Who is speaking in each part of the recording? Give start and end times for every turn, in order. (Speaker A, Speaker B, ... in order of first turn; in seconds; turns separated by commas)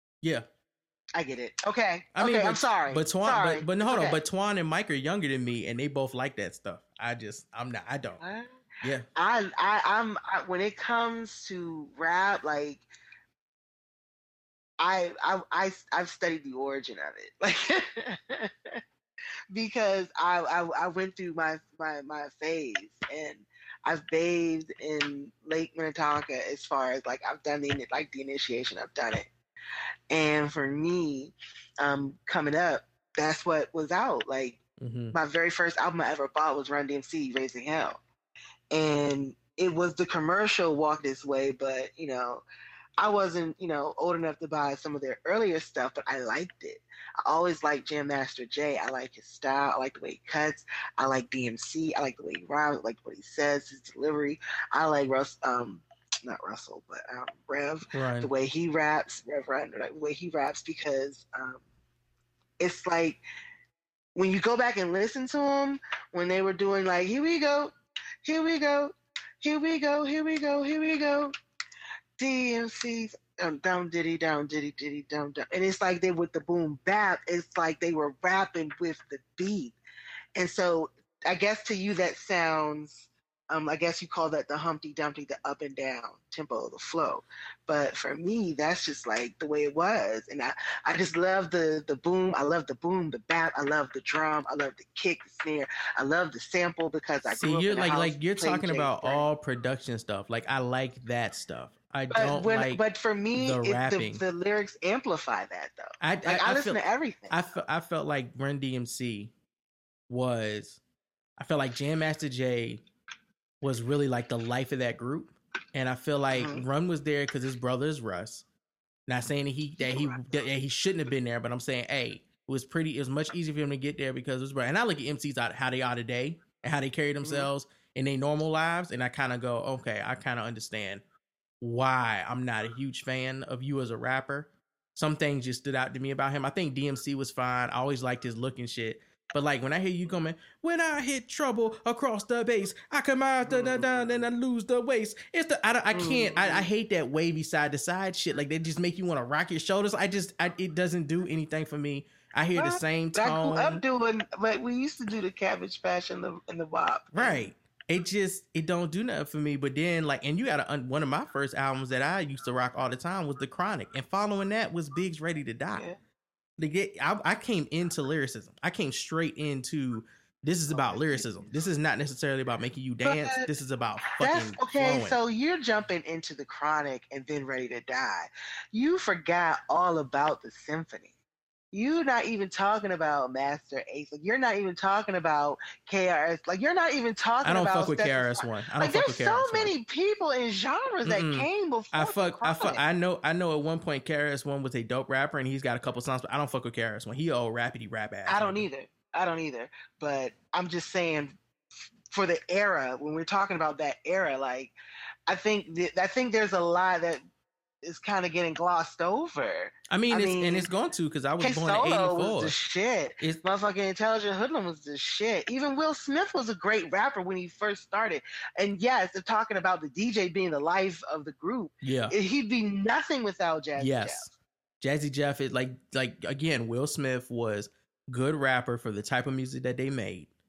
Speaker A: 1.1-4.2, Speaker B: 2.1-8.2, Speaker A: 8.2-8.6, Speaker B: 8.8-9.1, Speaker A: 9.1-12.8, Speaker A: 14.8-18.8, Speaker A: 19.5-29.3, Speaker A: 30.1-34.6, Speaker B: 34.8-35.1, Speaker A: 35.1-38.0, Speaker A: 38.7-42.4, Speaker A: 43.0-61.6, Speaker B: 57.9-58.3, Speaker A: 62.6-63.2, Speaker A: 64.1-71.3, Speaker A: 72.2-79.8, Speaker A: 80.3-99.3, Speaker B: 97.3-102.8, Speaker A: 102.1-107.4, Speaker B: 103.3-104.2, Speaker B: 106.0-109.3, Speaker B: 110.1-110.8, Speaker B: 111.4-112.8, Speaker B: 113.6-118.4, Speaker A: 116.3-116.7, Speaker B: 119.1-131.0, Speaker A: 119.8-120.2, Speaker A: 127.2-127.5, Speaker B: 131.6-153.8, Speaker A: 143.4-144.3, Speaker A: 145.9-146.7, Speaker A: 152.5-157.5, Speaker B: 157.1-165.8, Speaker B: 166.6-175.2, Speaker A: 170.7-171.3, Speaker A: 173.0-173.5, Speaker A: 174.1-181.1, Speaker A: 181.7-192.8, Speaker B: 187.4-189.7, Speaker B: 191.0-198.7, Speaker A: 198.2-201.3, Speaker A: 202.1-204.7, Speaker A: 205.3-207.2, Speaker A: 207.8-210.7, Speaker B: 209.9-212.5, Speaker A: 211.4-224.3, Speaker B: 221.8-222.2, Speaker B: 223.8-230.3